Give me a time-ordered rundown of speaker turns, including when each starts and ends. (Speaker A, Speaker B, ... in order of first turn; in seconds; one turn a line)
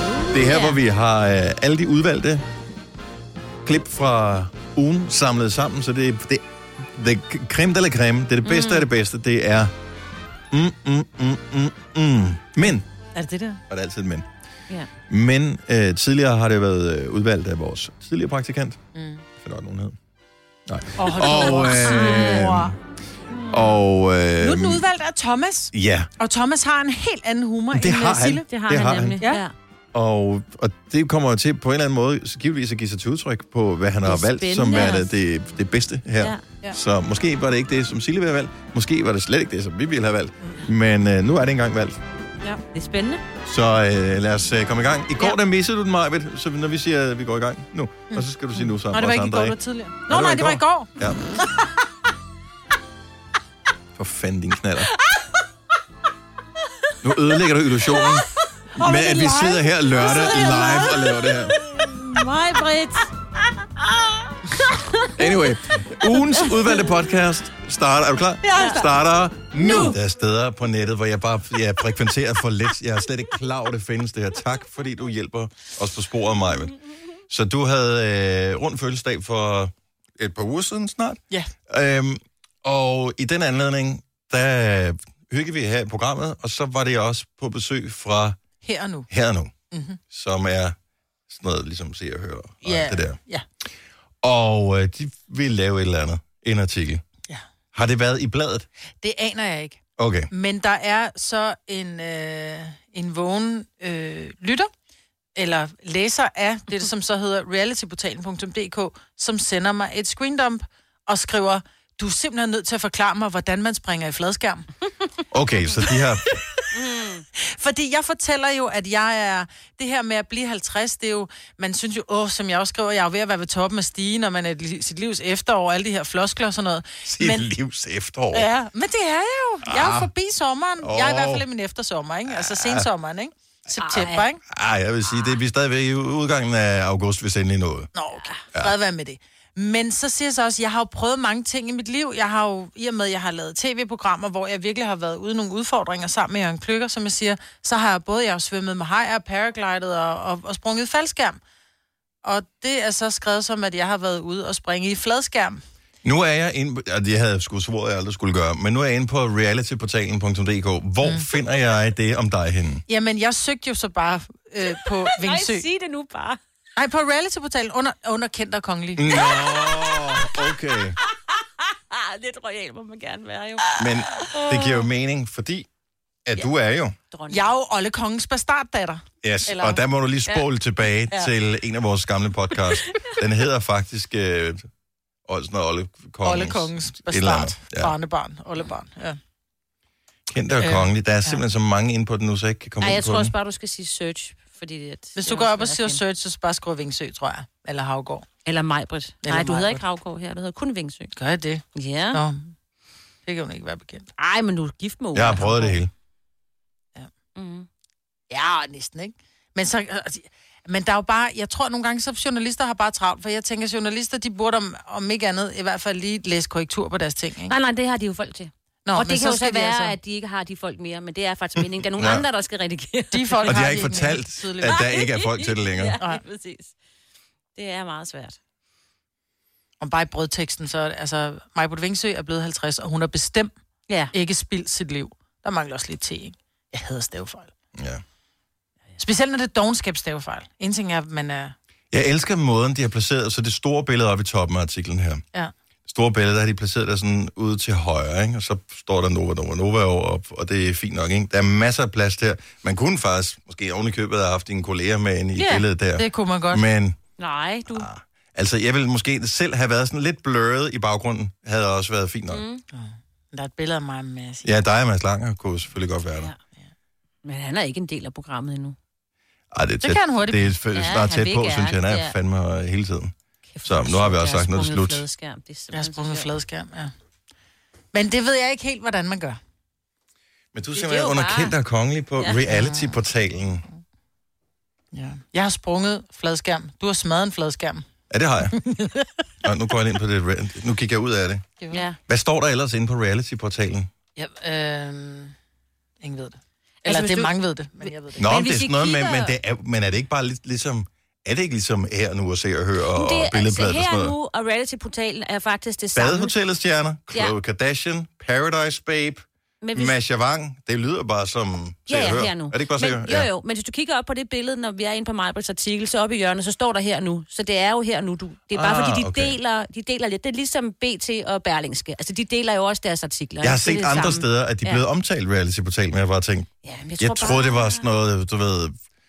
Speaker A: 0.3-0.8
Speaker B: 0.3-2.4
Speaker B: 3.6-9.7
Speaker A: 8.4-8.9
Speaker B: 10.5-12.8
Speaker C: 13.1-13.6
Speaker B: 13.7-14.3
Speaker B: 15.1-18.8
Speaker C: 18.9-19.2
Speaker B: 19.4-19.9
Speaker B: 20.7-22.8
Speaker C: 21.0-22.7
Speaker A: 21.2-22.4
Speaker A: 23.3-23.8
Speaker B: 23.5-24.8
Speaker C: 24.4-28.4
Speaker B: 25.7-26.1
Speaker B: 27.7-29.2
Speaker A: 28.2-29.5
Speaker B: 29.9-42.0
Speaker A: 34.0-35.1
Speaker A: 42.4-43.2
Speaker B: 43.5-49.5
Speaker C: 48.1-50.9
Speaker B: 50.1-51.2
Speaker B: 54.0-54.9
Speaker B: 57.0-61.6
Speaker C: 58.8-59.5
Speaker A: 58.9-63.1
Speaker C: 60.4-60.8
Speaker C: 61.9-62.9
Speaker B: 65.2-76.7
Speaker C: 68.5-68.8
Speaker A: 68.5-68.8
Speaker A: 69.6-70.0
Speaker C: 69.7-69.9
Speaker B: 77.3-88.4
Speaker C: 88.6-89.1
Speaker B: 89.1-89.5
Speaker C: 89.7-90.0
Speaker B: 90.1-90.7
Speaker B: 91.3-93.2
Speaker C: 92.6-93.4
Speaker B: 94.2-97.0
Speaker B: 97.7-98.7
Speaker C: 99.0-104.7
Speaker B: 100.0-100.3
Speaker C: 105.3-114.7
Speaker B: 115.3-116.3
Speaker A: 116.7-117.2
Speaker C: 117.4-127.5
Speaker B: 127.0-128.5
Speaker C: 128.3-134.4
Speaker B: 129.7-130.1
Speaker B: 130.8-131.4
Speaker B: 132.3-132.9
Speaker A: 133.8-134.2
Speaker B: 134.5-137.9
Speaker A: 135.1-135.3
Speaker C: 137.9-151.4
Speaker C: 152.2-155.6
Speaker B: 156.0-162.8
Speaker C: 162.9-165.6
Speaker A: 165.1-166.4
Speaker C: 166.8-169.1
Speaker B: 169.0-171.0
Speaker A: 169.1-170.2
Speaker A: 171.0-174.8
Speaker B: 173.8-175.7
Speaker B: 176.2-176.9
Speaker A: 177.1-177.4
Speaker C: 177.3-179.8
Speaker B: 179.2-184.7
Speaker B: 185.2-187.9
Speaker C: 186.2-189.2
Speaker B: 190.3-193.3
Speaker C: 190.6-191.4
Speaker A: 192.8-196.0
Speaker C: 195.2-198.3
Speaker A: 198.4-201.1
Speaker C: 199.2-199.8
Speaker C: 201.1-202.5
Speaker A: 201.7-202.2
Speaker C: 203.2-204.1
Speaker A: 204.2-205.7
Speaker B: 205.1-205.9
Speaker A: 207.3-207.7
Speaker C: 208.3-217.6
Speaker A: 217.5-224.0
Speaker C: 218.8-219.9
Speaker B: 221.9-222.2
Speaker C: 223.1-224.9
Speaker B: 223.5-226.0
Speaker A: 224.6-226.7
Speaker A: 227.6-228.4
Speaker C: 229.8-233.5
Speaker A: 233.9-234.1
Speaker C: 234.1-237.5
Speaker B: 237.8-238.0
Speaker C: 239.0-241.5
Speaker B: 241.9-245.2
Speaker B: 245.9-257.0
Speaker A: 255.4-255.6
Speaker C: 256.0-256.6
Speaker A: 257.2-257.9
Speaker B: 257.7-262.4
Speaker A: 262.3-262.6
Speaker C: 262.7-264.5
Speaker B: 264.4-266.3
Speaker A: 267.2-268.8
Speaker B: 269.5-275.0
Speaker C: 269.8-270.5
Speaker A: 270.7-272.1
Speaker A: 273.5-276.3
Speaker C: 275.7-276.9
Speaker C: 277.9-279.4
Speaker B: 280.5-283.6
Speaker A: 280.7-281.5
Speaker C: 282.5-283.0
Speaker C: 284.9-287.8
Speaker B: 288.1-288.5
Speaker C: 288.6-289.1
Speaker B: 289.4-291.4
Speaker A: 291.7-292.0
Speaker B: 292.1-293.9
Speaker C: 294.2-295.3
Speaker C: 296.0-298.2
Speaker A: 296.8-299.4
Speaker B: 298.2-304.1
Speaker A: 302.9-306.3
Speaker B: 305.9-309.2
Speaker A: 309.6-309.9
Speaker B: 309.7-313.3
Speaker A: 311.9-324.8
Speaker B: 318.5-319.4
Speaker B: 323.4-328.8
Speaker A: 326.6-327.9